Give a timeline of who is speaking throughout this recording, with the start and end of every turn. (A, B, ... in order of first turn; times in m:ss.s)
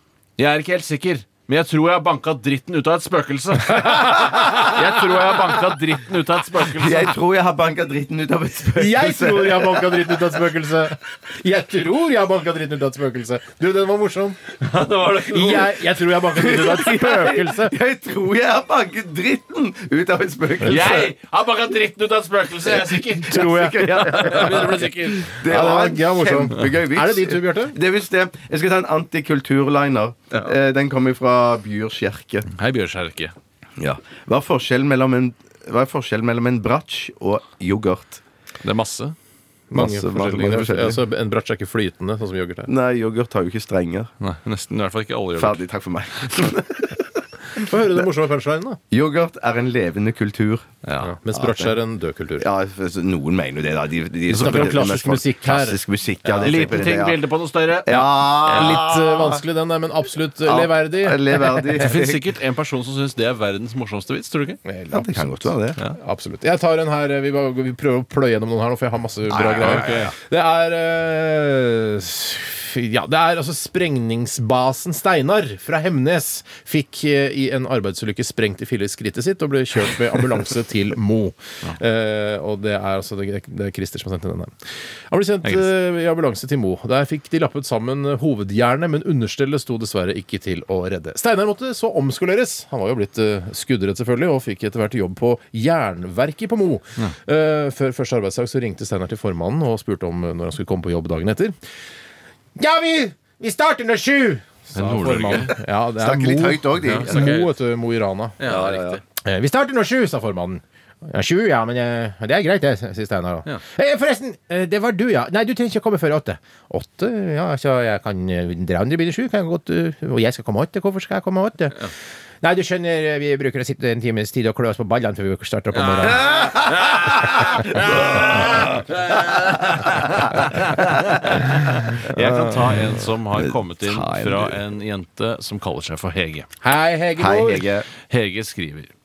0:00.4-0:07.1 A
0:03.8-0:05.2 B
0:06.7-0:10.2 C
0:08.8-0:14.5 B
0:14.6-0:16.0 A
0:15.3-0:17.8 B
0:16.3-0:21.1 C
0:20.6-0:25.4 A
0:20.6-0:21.0 B
0:23.1-0:24.8 B
0:23.5-0:32.5 C
0:25.4-0:27.8 B
0:32.5-0:33.3 A
0:33.8-0:38.2 C
0:38.6-0:39.2 A
0:39.7-0:42.7 B
0:39.7-0:41.0 C
0:42.7-0:44.1 C
0:44.2-0:45.6 A
0:45.4-0:47.0 C
0:47.5-0:48.8 B
0:48.9-0:50.7 C
0:50.8-0:51.2 A
0:51.0-0:52.5 B
0:51.4-0:51.8 C
0:52.4-0:57.2 C
0:54.3-0:56.9 B
0:56.4-0:58.8 A
0:57.8-0:59.4 C
0:58.5-1:01.9 B
1:00.4-1:02.2 C
1:01.8-1:04.6 A
1:04.7-1:24.5 B
1:04.9-1:05.8 C
1:09.3-1:10.1 C
1:09.5-1:10.1 A
1:25.1-1:41.6 B
1:25.4-1:25.7 A
1:42.6-2:06.3 B
1:44.7-1:45.6 A
1:46.0-1:47.5 C
1:46.8-1:47.5 A
1:48.4-1:49.0 A
1:48.5-1:49.0 C
2:05.8-2:16.5 A
2:07.6-2:08.4 B
2:13.4-2:14.6 C
2:16.6-2:17.7 B
2:17.2-2:17.9 C
2:18.0-2:18.9 A